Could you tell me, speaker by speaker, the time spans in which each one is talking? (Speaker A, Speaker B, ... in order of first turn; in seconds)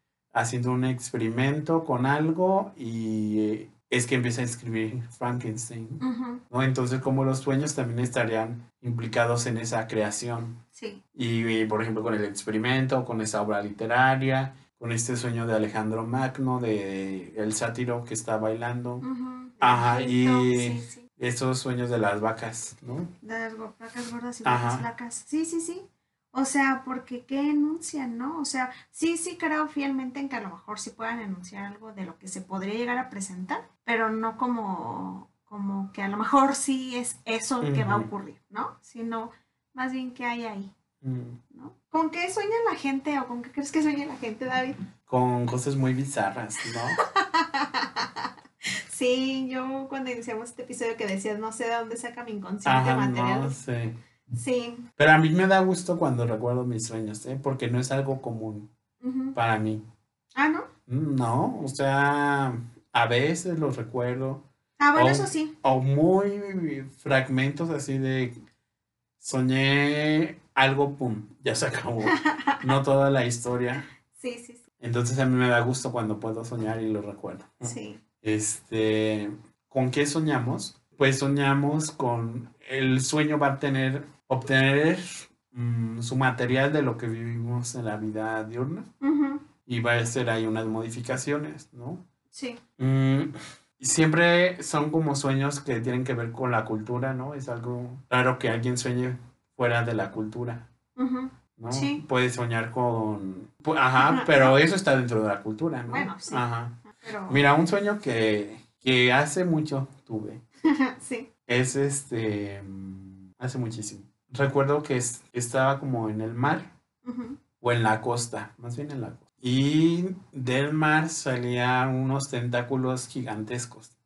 Speaker A: 0.3-10.6, 11.1-19.1, 19.6-23.1, 24.4-24.9, 37.6-38.1, 41.0-41.4, 45.1-47.0, 52.6-54.0, 55.0-58.7, 59.3-59.8, 60.9-64.4, 65.0-68.4, 69.2-73.9, 74.8-88.9, 89.7-92.0, 92.8-100.7, 101.6-110.4, 111.5-116.7, 117.6-123.9
Speaker B: 6.0-6.4, 10.7-11.0, 19.0-21.1, 23.2-40.7, 41.5-44.8, 47.0-53.5, 54.3-54.9, 59.0-59.4, 60.4-60.7, 64.8-65.5, 72.1-72.6, 74.1-74.6, 77.6-78.0, 89.0-89.5, 92.3-92.6, 101.0-102.0, 104.0-104.5, 105.9-107.4, 110.7-111.3, 117.0-117.4